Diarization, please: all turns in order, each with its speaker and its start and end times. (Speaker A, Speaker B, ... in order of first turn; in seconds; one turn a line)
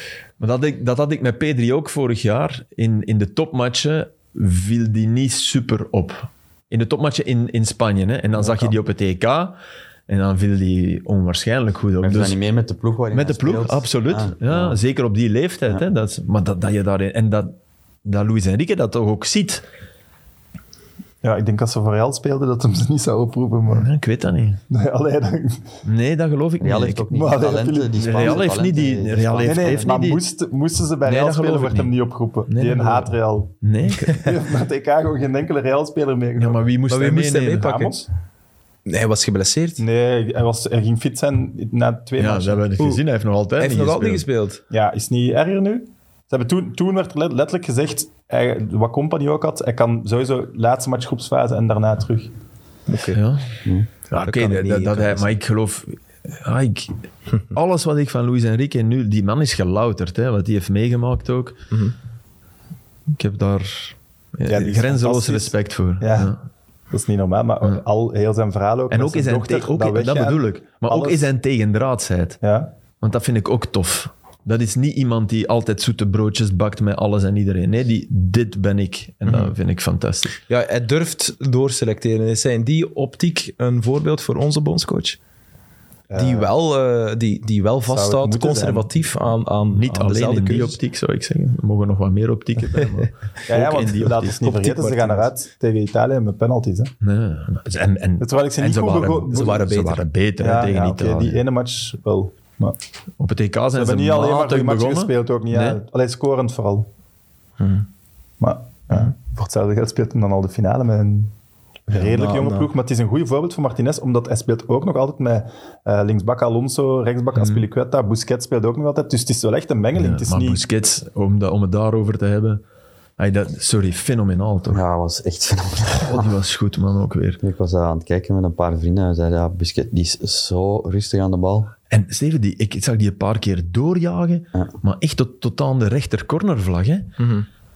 Speaker A: 0.4-9.6
Speaker A: 10.1-12.4
Speaker B: 12.0-14.8
Speaker A: 13.1-19.6
Speaker C: 21.2-23.9
Speaker A: 23.7-24.6
Speaker C: 24.7-25.6
Speaker A: 25.9-27.1
Speaker B: 26.6-30.0
Speaker C: 27.1-28.4
Speaker A: 28.0-30.2
Speaker C: 29.4-36.6
Speaker A: 31.1-31.9
Speaker A: 32.5-34.2
Speaker A: 36.4-37.7
Speaker D: 36.9-37.9
Speaker C: 37.6-38.1
Speaker D: 38.9-39.8
Speaker C: 39.8-42.6
Speaker A: 42.2-44.2
Speaker D: 42.8-43.0
Speaker D: 43.6-44.6
Speaker C: 44.7-52.3
Speaker D: 52.9-53.2
Speaker A: 53.1-53.5
Speaker A: 54.1-57.0
Speaker D: 54.1-55.3
Speaker A: 57.5-61.6
Speaker A: 63.1-66.4
Speaker C: 64.5-66.3
Speaker C: 66.9-71.3
Speaker A: 68.9-72.4
Speaker C: 72.4-72.7
Speaker A: 73.0-80.3
Speaker D: 80.5-85.2
Speaker C: 86.1-86.5
Speaker D: 86.2-90.8
Speaker C: 87.9-88.9
Speaker A: 89.7-94.4
Speaker C: 93.5-96.9
Speaker D: 94.4-95.3
Speaker A: 97.0-101.4
Speaker C: 98.2-99.6
Speaker D: 99.3-100.0
Speaker C: 100.4-102.8
Speaker A: 103.2-105.8
Speaker C: 103.7-106.9
Speaker D: 107.6-107.9
Speaker C: 108.4-111.3
Speaker C: 111.9-120.6
Speaker D: 111.9-112.7
Speaker A: 117.3-117.7
Speaker A: 120.0-122.6
Speaker A: 123.2-124.8
Speaker B: 124.7-126.3
Speaker A: 126.0-127.4
Speaker B: 127.4-131.7
Speaker A: 131.9-137.1
Speaker D: 137.2-137.5